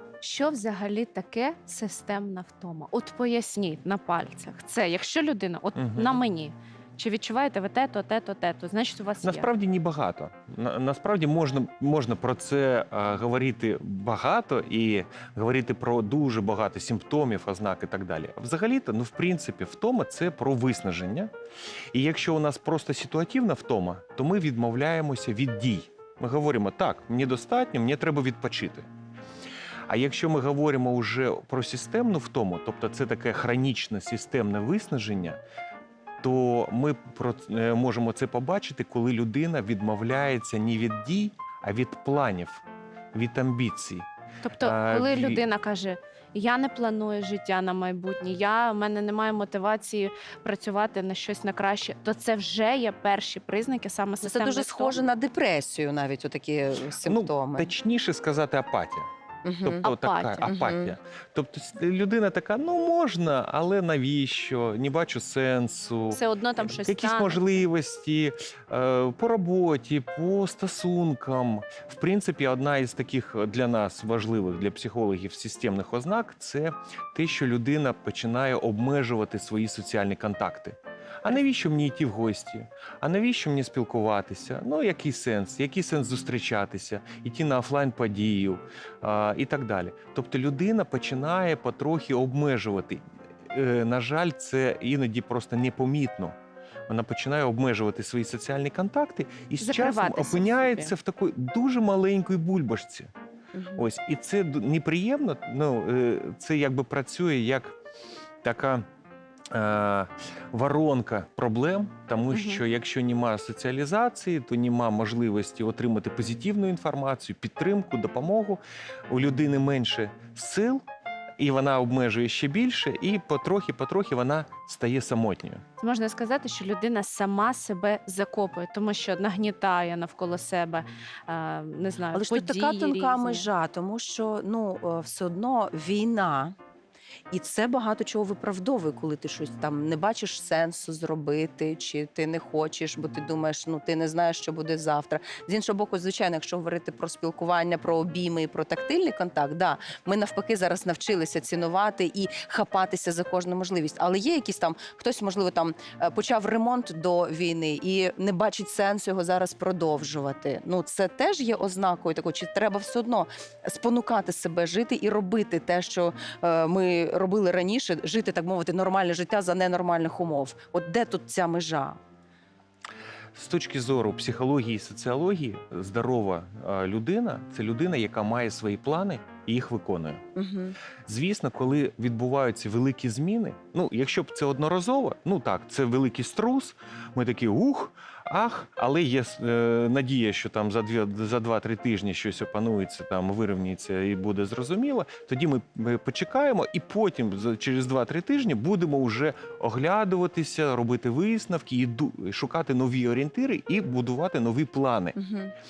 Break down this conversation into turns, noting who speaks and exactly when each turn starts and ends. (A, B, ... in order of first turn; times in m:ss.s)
0:00.2-0:09.5 A
0:05.8-0:06.2 B
0:09.2-0:21.3 B
0:21.9-0:28.9 B
0:29.9-0:35.4 B
0:36.2-0:44.1 B
0:44.4-0:55.0 A
0:44.6-0:45.4 B
0:54.2-0:57.7 C
0:57.0-0:59.1 B
0:59.4-0:59.8 C
0:59.6-1:36.4 B
0:59.8-1:00.6 A
1:00.5-1:01.0 C
1:06.1-1:07.5 A
1:36.9-1:43.1 B
1:39.6-1:40.9 A
1:43.5-1:43.9 C
1:43.8-1:47.8 B
1:48.4-1:48.8 B
1:49.5-2:00.8 B
1:52.3-1:52.6 A
2:01.4-2:05.6 B
2:05.8-2:13.5 A
2:12.1-2:16.6 C
2:17.3-2:52.0 C
2:53.3-3:00.2 B
3:00.4-3:00.8 C
3:01.1-3:25.2 B
3:25.2-3:25.5 C